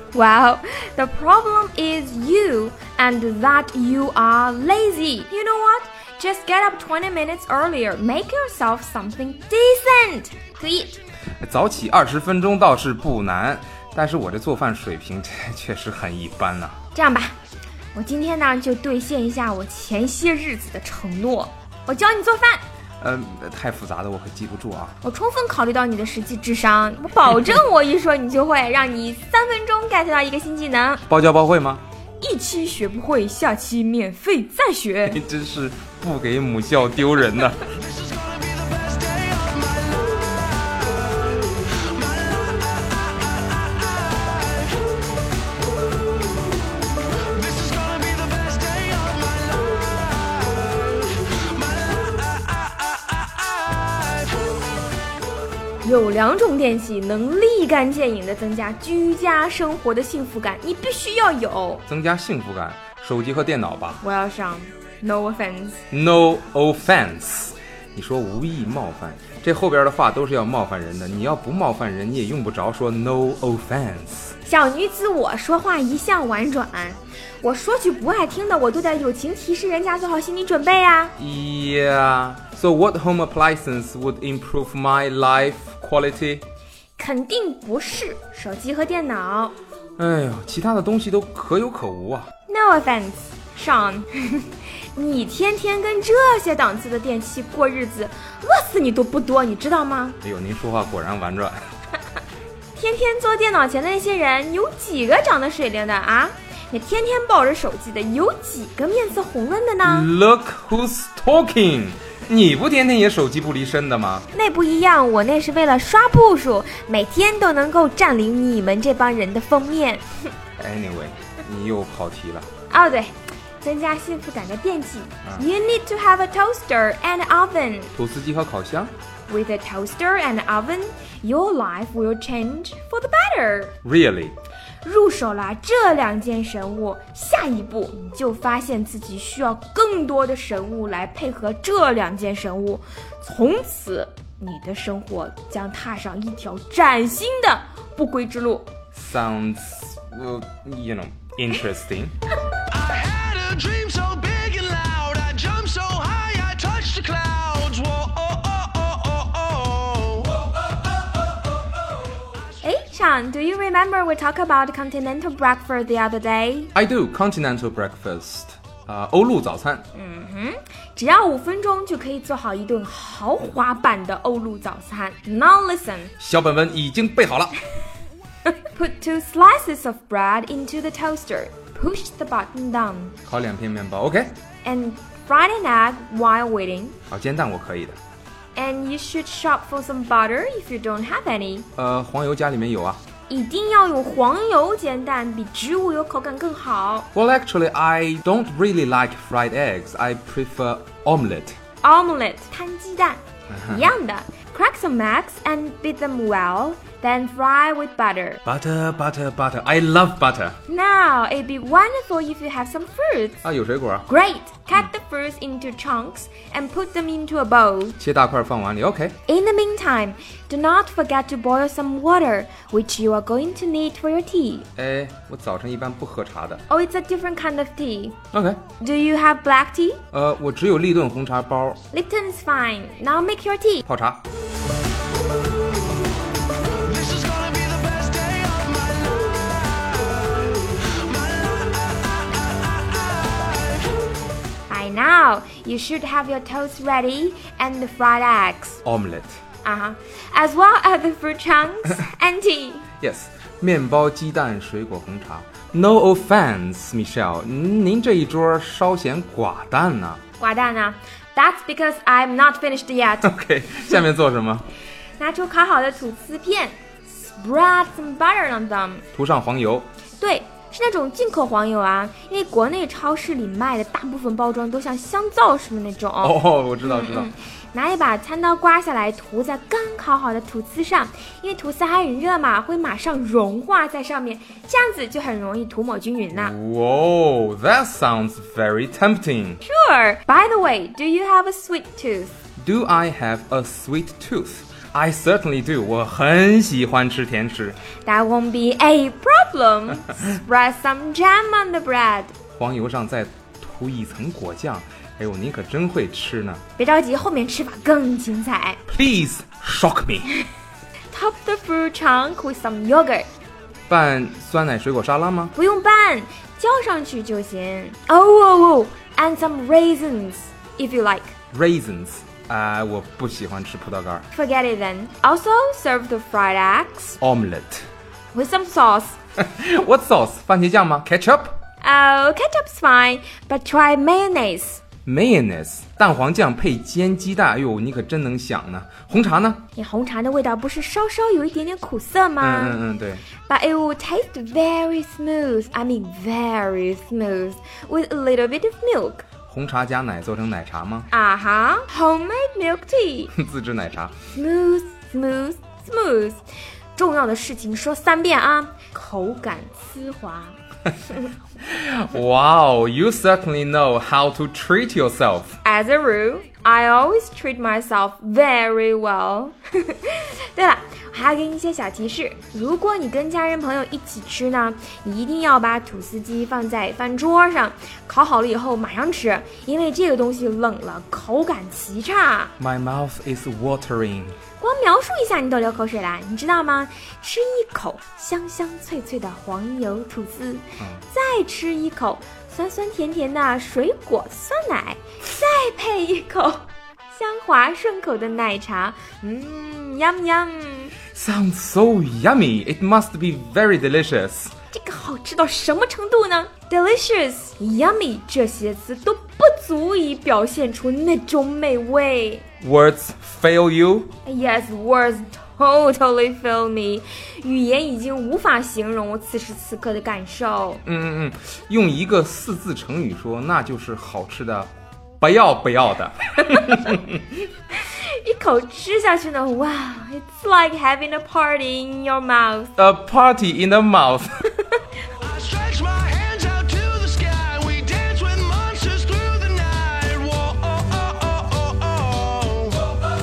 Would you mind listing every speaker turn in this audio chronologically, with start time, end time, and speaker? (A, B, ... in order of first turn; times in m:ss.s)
0:00.1-0:11.0 A
0:11.4-0:16.8 B
0:16.9-0:17.4 A
0:18.0-0:22.6 A
0:23.0-0:25.0 B
0:25.0-0:31.0 A
0:31.1-0:31.8 B
0:32.2-0:35.2 A
0:35.1-0:37.8 B
0:38.6-0:39.6 C
0:55.8-1:01.8 A
1:01.9-1:04.0 B
1:04.0-1:05.8 A
1:05.9-1:14.4 B
1:14.4-1:21.2 A
1:21.2-1:26.4 B
1:27.0-1:29.6 A
1:30.0-1:32.3 B
1:32.5-1:40.2 A
1:40.2-1:41.6 B
1:42.8-1:50.1 A
1:49.8-1:54.3 B
1:54.3-2:00.0 A
2:00.6-2:02.5 B
2:02.7-2:07.9 A
2:08.0-2:08.9 B
2:09.3-2:13.7 A
2:13.8-2:14.4 B
2:14.8-2:28.7 A
2:28.9-2:32.1 B
2:32.8-2:40.2 C
2:42.6-2:46.7 A
2:46.8-2:49.8 B
2:49.9-2:56.1 A
2:56.2-2:57.5 B
2:58.6-3:03.2 A
3:03.3-3:04.3 B
3:04.6-3:07.0 A
3:07.1-3:08.0 B
3:08.6-3:11.7 A
3:11.8-3:13.0 B
3:13.3-3:17.1 A
3:17.1-3:21.6 B
3:21.8-3:28.4 A
3:23.5-3:23.9 B
3:28.4-3:30.6 B
3:30.7-3:33.4 A
3:33.4-3:34.1 B
3:34.1-3:38.0 A
3:38.0-3:39.2 B
3:39.3-3:44.7 A
3:44.8-3:46.6 B
3:46.7-3:48.2 A
3:48.3-3:48.6 B
3:48.8-3:50.0 A
3:50.1-3:51.8 B
3:51.9-3:53.8 A
3:53.8-3:54.2 B
3:57.0-3:59.2 C
4:04.7-4:08.8 A
4:08.8-4:09.4 B
4:09.6-4:12.9 A
4:13.0-4:20.2 B
4:20.4-4:23.3 A
4:23.2-4:24.7 B
4:25.2-4:26.8 A
4:27.4-4:29.0 A
4:29.1-4:29.9 B
4:30.2-4:46.5 A
4:36.2-4:37.3 B
4:46.3-4:49.6 B
4:49.6-4:52.3 A
4:52.6-4:57.8 B
4:58.0-5:02.3 A
5:02.6-5:06.6 B
5:06.8-5:08.8 A
5:08.9-5:10.3 B
5:11.1-5:13.3 A
5:13.9-5:15.5 B
5:15.6-5:21.3 A
5:21.5-5:24.3 B
5:24.3-5:27.2 A
5:27.2-5:27.9 B
5:28.3-5:29.2 A
5:29.4-5:31.5 B
5:31.8-5:34.8 A
5:35.1-5:39.6 B
5:39.8-5:42.8 A
5:42.4-5:43.2 B
5:43.5-5:49.2 A
5:49.5-5:51.1 B
5:51.1-5:53.3 A
5:53.3-5:54.2 B
5:54.3-5:56.4 A
5:57.0-6:00.6 A
6:01.6-6:05.6 B
6:05.6-6:22.5 A
6:22.6-6:24.4 B
6:24.6-6:41.0 A
6:41.1-6:44.5 B
6:44.7-6:52.4 A
6:52.6-6:54.1 B
6:54.2-7:00.8 A
7:00.8-7:07.2 B
7:07.8-7:12.7 A
7:12.8-7:14.5 B
7:15.3-7:22.8 C